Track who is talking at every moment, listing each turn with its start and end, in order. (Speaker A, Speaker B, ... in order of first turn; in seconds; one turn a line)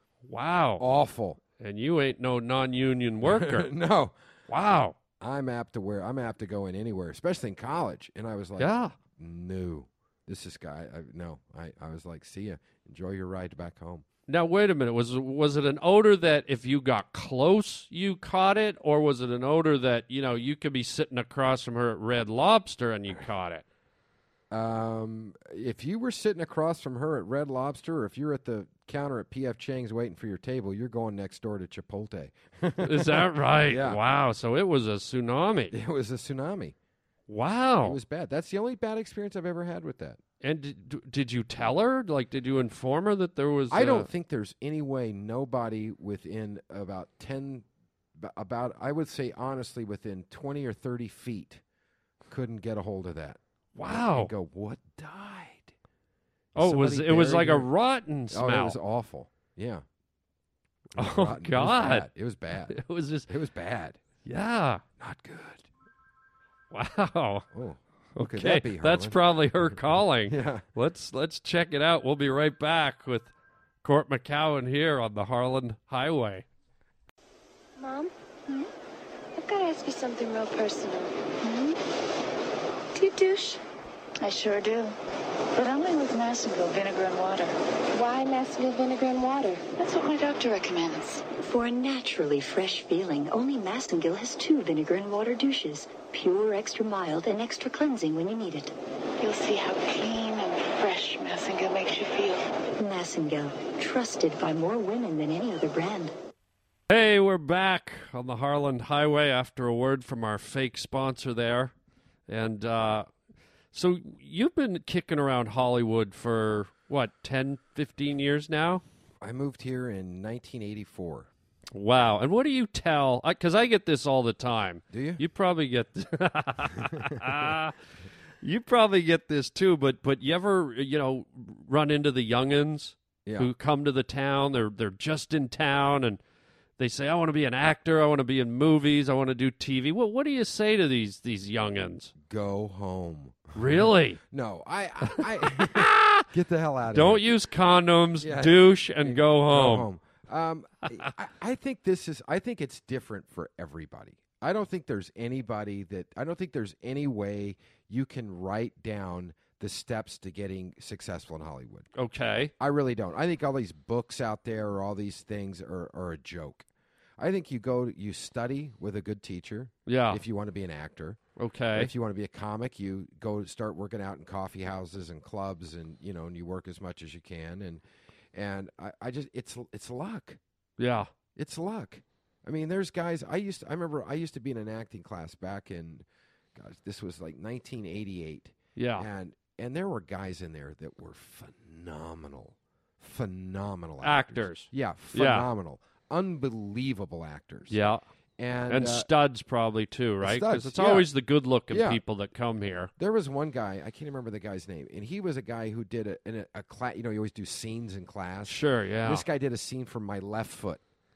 Speaker A: 0.2-0.8
Speaker B: 0.8-1.4
Speaker A: 1.6-3.7
Speaker B: 3.2-4.1
Speaker A: 4.5-5.0
Speaker B: 5.2-14.0
Speaker A: 8.6-8.9
Speaker A: 14.3-23.6
Speaker B: 24.5-34.0
Speaker A: 32.8-35.7
Speaker B: 35.7-36.8
Speaker A: 37.3-38.0
Speaker B: 37.8-40.2
Speaker A: 40.4-44.1
Speaker B: 43.7-47.6
Speaker B: 48.2-51.6
Speaker B: 52.3-55.7
Speaker A: 53.8-54.3
Speaker B: 56.5-57.7
Speaker A: 56.5-58.8
Speaker B: 58.3-59.8
Speaker B: 61.0-64.0
Speaker A: 61.0-62.1
Speaker A: 62.7-63.3
Speaker A: 64.2-64.8
Speaker B: 65.0-65.7
Speaker A: 66.7-67.5
Speaker B: 67.5-69.2
Speaker A: 68.2-73.3
Speaker B: 70.3-70.7
Speaker A: 73.8-76.5
Speaker C: 77.8-78.7
Speaker C: 79.4-81.1
Speaker C: 83.1-83.5
Speaker D: 84.2-84.9
Speaker D: 85.5-87.5
Speaker C: 87.9-89.6
Speaker D: 89.8-91.2
Speaker E: 91.4-98.7
Speaker D: 99.2-102.4
Speaker E: 102.8-106.1
Speaker A: 106.9-111.7
Speaker A: 112.3-113.1
Speaker A: 113.7-118.8
Speaker B: 119.2-121.3
Speaker A: 121.7-127.8
Speaker B: 124.9-125.2
Speaker A: 128.4-136.2
Speaker B: 133.2-133.5
Speaker A: 136.8-142.1
Speaker B: 142.2-147.2
Speaker A: 143.5-144.2
Speaker A: 145.1-146.3
Speaker A: 146.9-149.9
Speaker B: 148.2-161.9
Speaker A: 161.9-162.5
Speaker B: 162.6-166.7
Speaker B: 167.2-171.2
Speaker A: 169.9-170.2
Speaker A: 171.4-171.9
Speaker B: 171.7-177.8
Speaker B: 178.3-180.4
Speaker A: 180.8-181.1
Speaker B: 181.3-197.8
Speaker A: 188.8-189.1
Speaker A: 194.0-195.5
Speaker A: 197.7-198.0
Speaker B: 198.4-199.1
Speaker A: 198.7-202.9
Speaker B: 200.2-201.1
Speaker B: 201.7-202.0
Speaker B: 203.0-210.8
Speaker A: 208.4-209.2